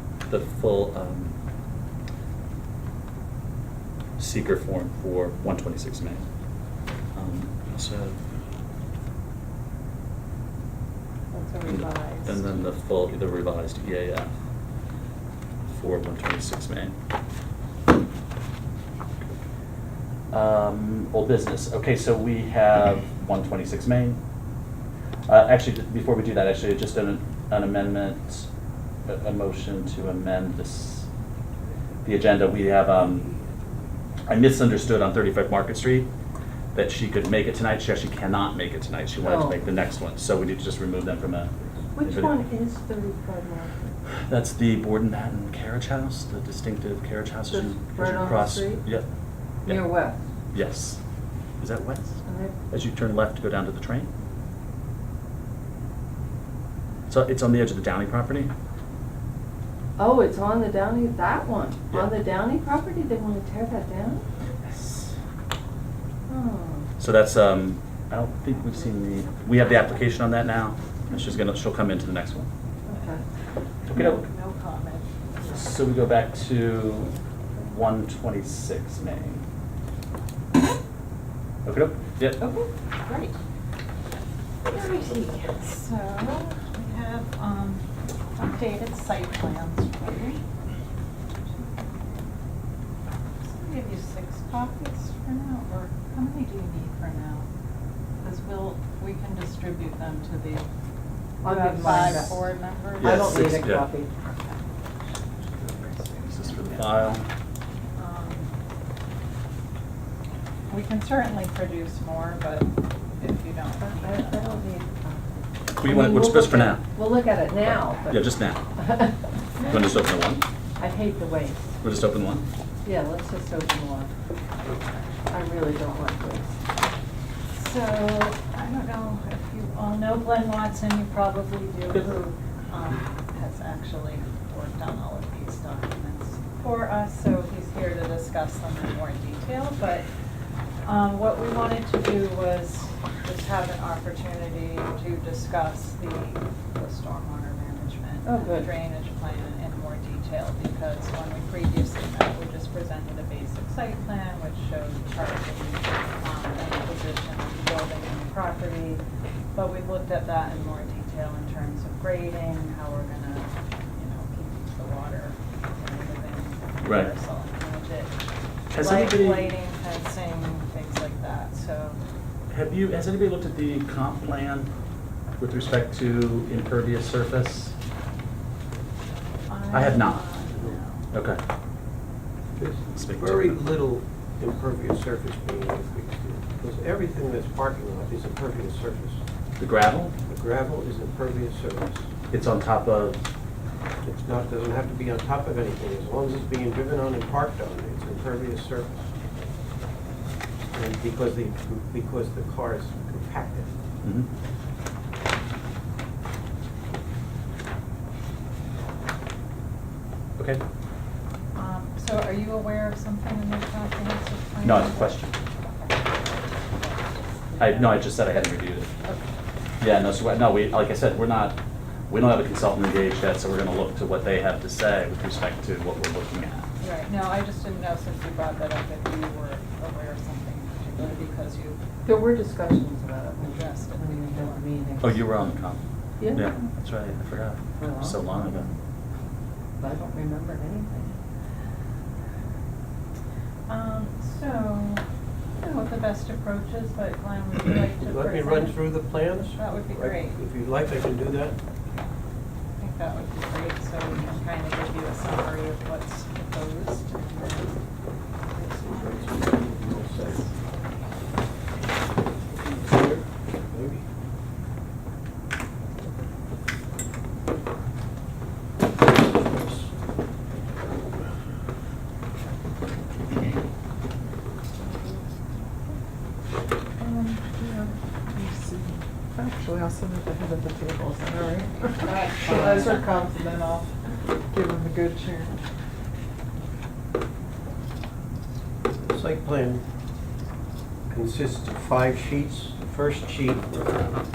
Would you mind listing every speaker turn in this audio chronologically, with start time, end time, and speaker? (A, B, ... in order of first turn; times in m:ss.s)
0:00.3-0:01.3 A
0:04.2-0:06.2 A
0:07.1-0:08.2 A
0:11.3-0:12.5 B
0:11.7-0:14.3 A
0:15.7-0:17.0 A
0:20.3-0:24.2 A
0:25.3-0:28.5 A
0:29.1-0:31.1 A
0:32.0-0:33.4 A
0:34.3-0:36.1 A
0:36.7-0:42.4 A
0:39.2-0:39.6 C
0:42.0-0:44.0 C
0:44.2-0:49.1 A
0:47.5-0:48.8 C
0:49.6-0:50.2 C
0:50.5-0:51.0 A
0:51.6-0:52.2 A
0:52.2-0:52.6 C
0:52.7-0:54.1 A
0:57.1-0:58.5 A
1:00.0-1:04.2 C
1:04.7-1:05.1 A
1:06.3-1:06.9 C
1:07.0-1:12.5 A
1:12.8-1:13.2 C
1:13.8-1:14.3 A
1:13.9-1:15.5 B
1:15.4-1:19.4 A
1:21.6-1:22.4 A
1:22.4-1:23.4 B
1:24.7-1:30.4 B
1:31.4-1:32.3 B
1:33.4-1:37.5 B
1:38.2-1:40.6 B
1:41.4-1:42.4 C
1:41.4-1:43.2 B
1:43.0-1:43.9 A
1:43.0-1:44.1 C
1:45.4-1:47.2 B
1:46.3-1:47.3 A
1:48.0-1:48.5 B
1:50.7-1:54.6 B
1:53.8-1:59.3 C
1:55.8-1:56.8 A
1:57.6-1:58.6 A
1:59.6-2:00.4 A
2:00.8-2:01.8 C
2:01.8-2:02.4 A
2:02.8-2:04.1 C
2:05.3-2:06.6 C
2:07.5-2:20.1 B
2:20.8-2:39.0 B
2:28.2-2:28.7 C
2:39.5-2:48.1 B
2:46.8-2:47.1 A
2:48.7-2:52.0 B
2:48.7-2:49.5 A
2:52.5-2:54.7 A
2:55.4-2:57.8 A
2:59.5-3:01.1 B
2:59.7-3:00.2 A
3:01.1-3:01.4 A
3:02.6-3:09.2 D
3:02.9-3:03.6 A
3:09.6-3:10.2 A
3:10.3-3:12.1 D
3:12.3-3:13.2 A
3:14.0-3:19.1 D
3:20.7-3:23.7 D
3:24.0-3:24.3 A
3:30.4-3:30.6 A
3:31.6-3:38.3 B
3:34.6-3:35.3 A
3:37.6-3:38.9 A
3:39.8-3:41.6 A
3:42.1-3:46.7 A
3:46.8-3:51.8 B
3:52.1-3:55.2 C
3:53.4-3:54.6 B
3:55.0-3:55.8 A
3:56.2-3:56.6 C
3:56.3-3:58.7 A
3:57.8-3:58.7 C
3:59.8-4:01.2 C
4:03.7-4:05.0 B
4:05.6-4:10.4 B
4:08.0-4:11.6 D
4:12.8-4:17.8 B
4:18.5-4:19.0 B
4:18.6-4:20.5 D
4:22.5-4:24.0 D
4:29.1-4:29.9 D
4:37.0-4:43.8 E
4:41.9-4:43.2 C
4:44.5-4:45.5 E
4:49.1-4:49.8 D
4:51.1-4:53.8 D